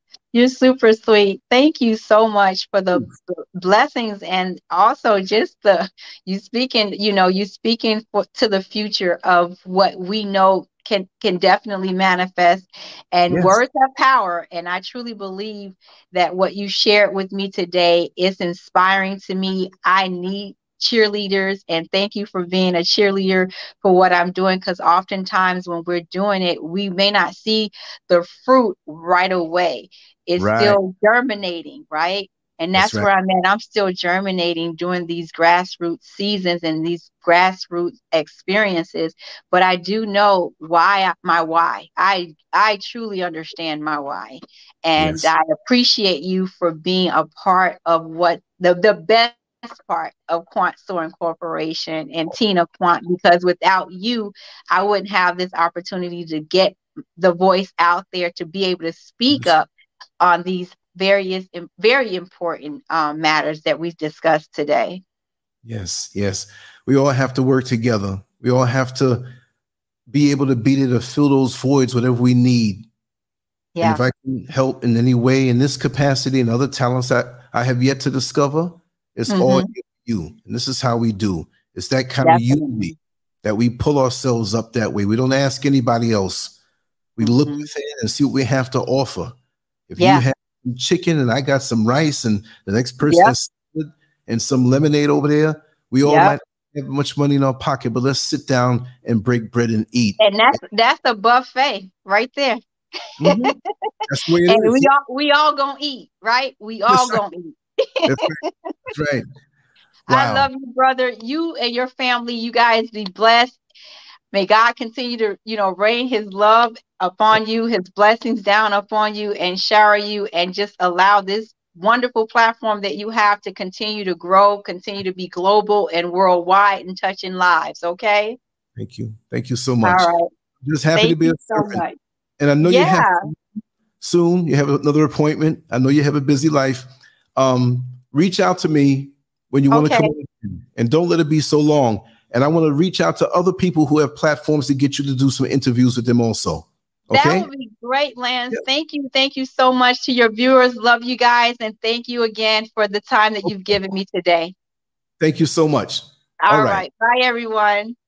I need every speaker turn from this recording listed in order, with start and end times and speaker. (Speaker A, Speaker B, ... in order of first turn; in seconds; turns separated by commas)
Speaker A: 0.3-59.7, Speaker B: 13.3-13.6, Speaker B: 30.4-30.8, Speaker B: 32.8-33.1, Speaker B: 45.0-45.3, Speaker A: 60.2-65.0, Speaker B: 65.7-69.3, Speaker B: 70.1-72.9, Speaker A: 73.8-74.0, Speaker B: 73.8-86.6, Speaker A: 79.3-79.7, Speaker A: 82.2-82.9, Speaker B: 87.2-89.4, Speaker A: 87.2-87.7, Speaker B: 89.9-100.2, Speaker A: 90.0-90.2, Speaker A: 93.1-93.3, Speaker A: 96.0-96.4, Speaker A: 100.2-102.6, Speaker B: 103.2-103.5, Speaker A: 103.2-103.5, Speaker B: 104.1-104.9, Speaker A: 104.5-108.7, Speaker B: 106.9-107.2, Speaker B: 108.1-108.4, Speaker B: 108.9-109.3, Speaker A: 110.1-113.6, Speaker B: 110.1-110.5, Speaker A: 114.3-128.4, Speaker B: 128.8-130.1, Speaker A: 129.8-130.3, Speaker B: 130.6-131.8, Speaker A: 131.0-132.0, Speaker B: 132.4-133.4, Speaker A: 132.6-133.2, Speaker B: 134.0-147.5, Speaker A: 139.7-140.1, Speaker A: 147.1-154.6, Speaker B: 155.2-156.8, Speaker A: 156.4-158.0